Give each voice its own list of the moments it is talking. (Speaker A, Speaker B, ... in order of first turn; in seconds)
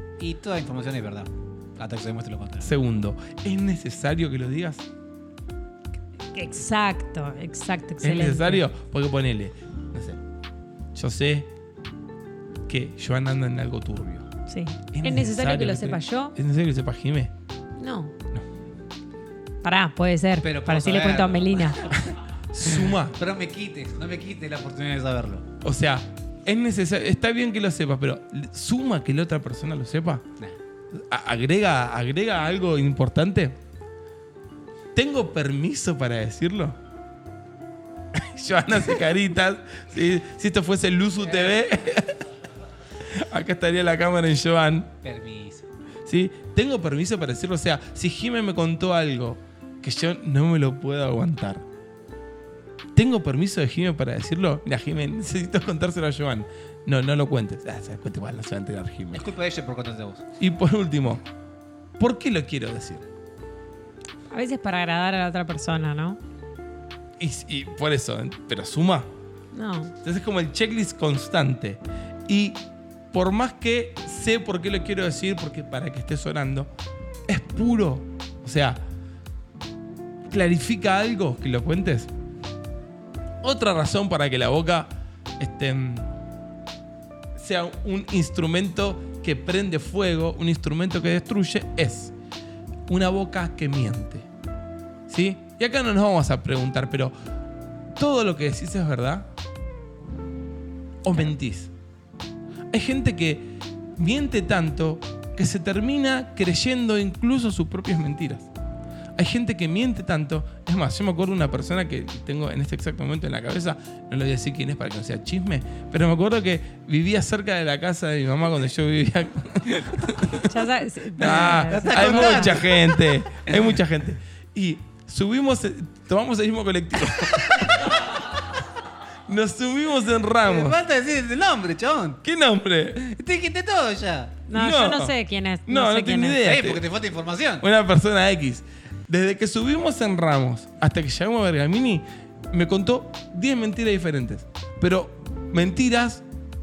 Speaker A: 0.2-2.7, 20.4-22.0, 22.7-25.4, 45.0-45.6, 59.1-60.2, 121.2-122.8, 130.4-132.2, 133.2-134.4, 136.4-137.6
Speaker B: 2.6-4.8, 8.0-10.2, 10.9-11.5, 12.7-14.2, 14.9-17.3, 21.8-23.2, 25.6-30.2, 30.9-33.6, 34.9-36.8, 38.1-42.2, 43.1-44.9, 46.0-51.6, 52.9-59.2, 60.4-61.2, 62.0-63.0, 67.2-69.1, 70.0-76.7, 77.3-78.8, 80.3-82.1, 83.4-86.1, 87.3-92.1, 92.9-94.3, 95.1-97.1, 98.0-99.3, 101.0-101.7, 102.7-108.5, 109.2-120.6, 121.2-128.2, 129.3-130.8, 132.2-133.2, 134.5-135.2, 135.7-136.8, 137.6-146.2
Speaker C: 6.3-8.6, 14.5-16.3, 17.8-18.1, 19.6-21.8, 64.3-66.2, 69.5-69.9, 120.5-122.5, 134.5-136.4